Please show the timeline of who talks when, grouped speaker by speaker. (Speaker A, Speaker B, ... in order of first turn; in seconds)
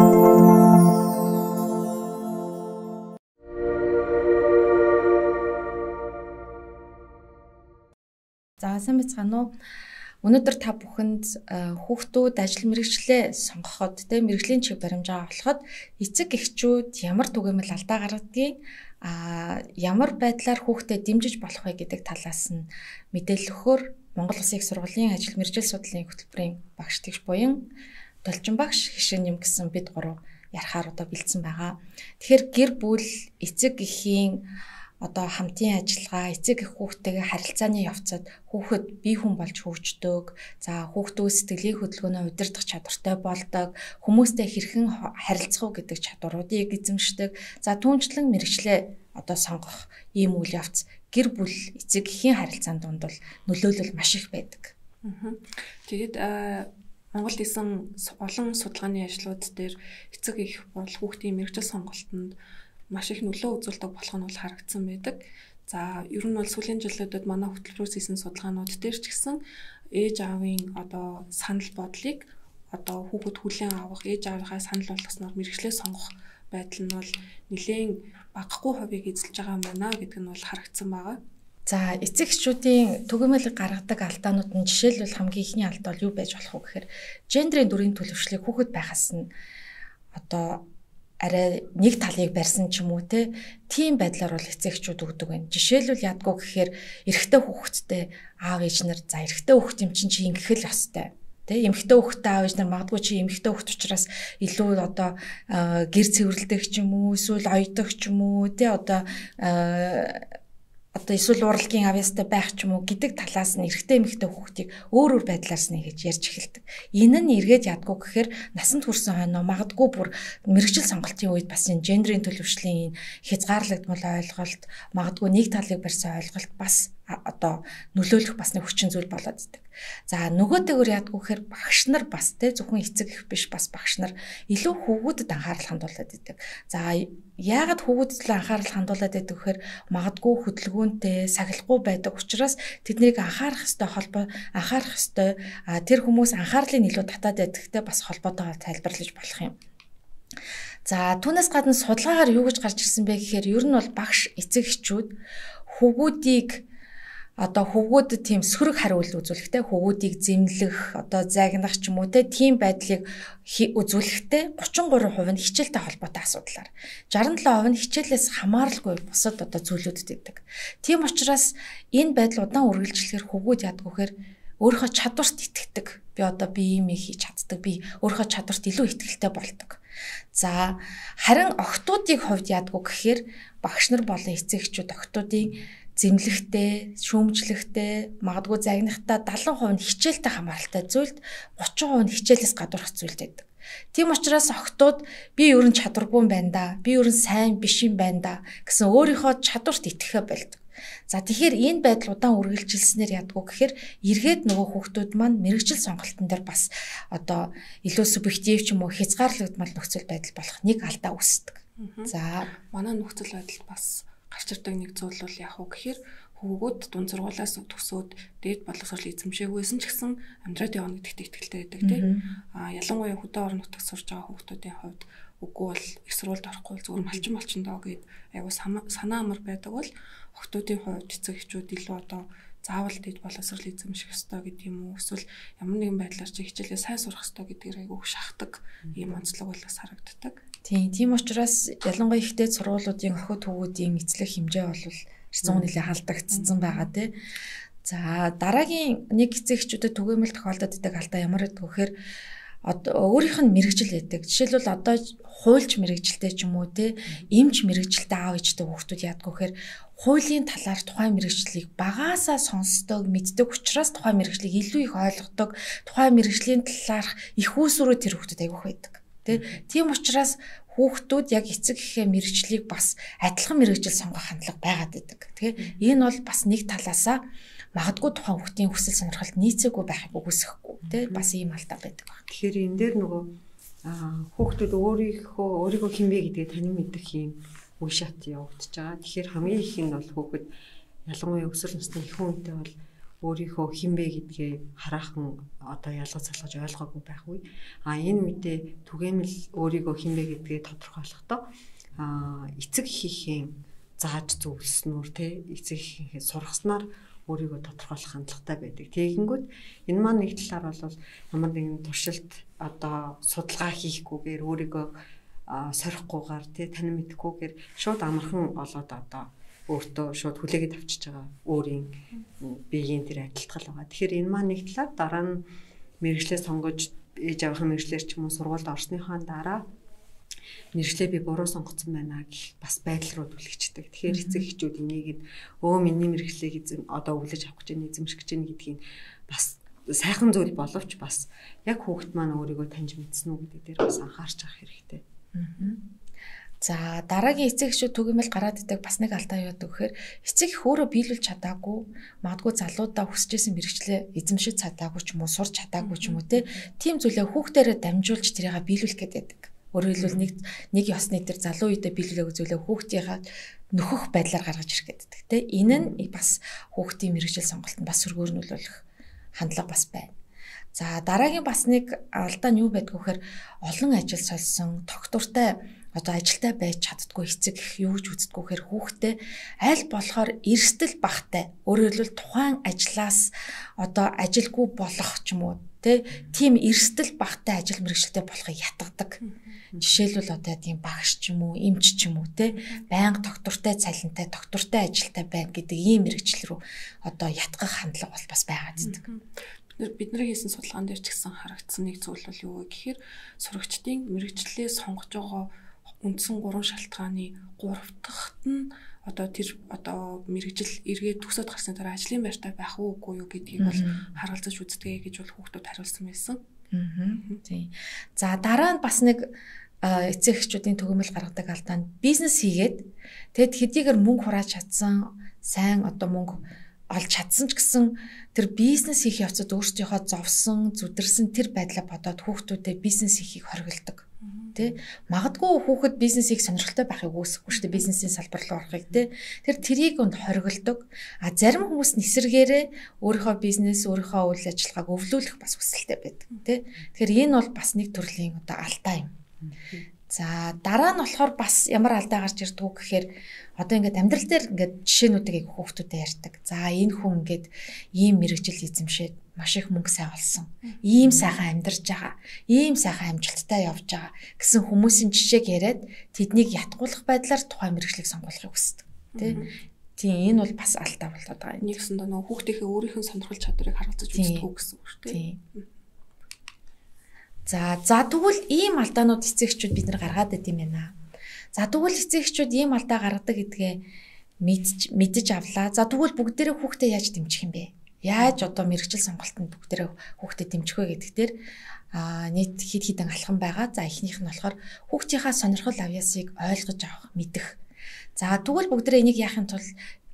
Speaker A: 8.6-9.5, 10.2-27.6, 28.2-34.5, 35.0-54.7, 81.7-89.3, 90.1-90.6, 91.2-110.2, 110.9-149.6, 150.8-155.2, 155.7-156.6, 157.4-179.8, 180.3-212.5, 221.8-222.2, 240.7-247.1, 247.8-251.9, 252.6-277.2, 277.7-282.2, 334.1-334.5, 345.3-345.8, 346.6-368.8, 369.4-370.1, 370.7-389.2, 389.8-399.0, 413.6-414.1, 416.7-449.1, 450.1-469.4, 470.0-471.8, 474.1-474.5, 475.1-475.4, 477.4-480.9, 481.5-483.8, 484.4-491.3, 491.9-497.6, 498.1-499.7
Speaker B: 55.0-62.3, 62.9-69.4, 69.9-81.2, 211.8-240.4, 246.3-246.9, 355.8-356.2, 389.2-389.6, 398.8-405.5, 406.0-416.4, 434.2-434.6, 437.5-437.9, 469.1-469.5, 471.6-475.7
Speaker C: 245.4-245.7, 269.3-269.6, 280.9-281.2, 282.3-283.3, 283.8-290.5, 291.1-301.5, 302.0-314.9, 315.5-325.4, 326.0-329.6, 330.7-345.0, 360.0-360.2, 449.4-449.8, 461.0-461.3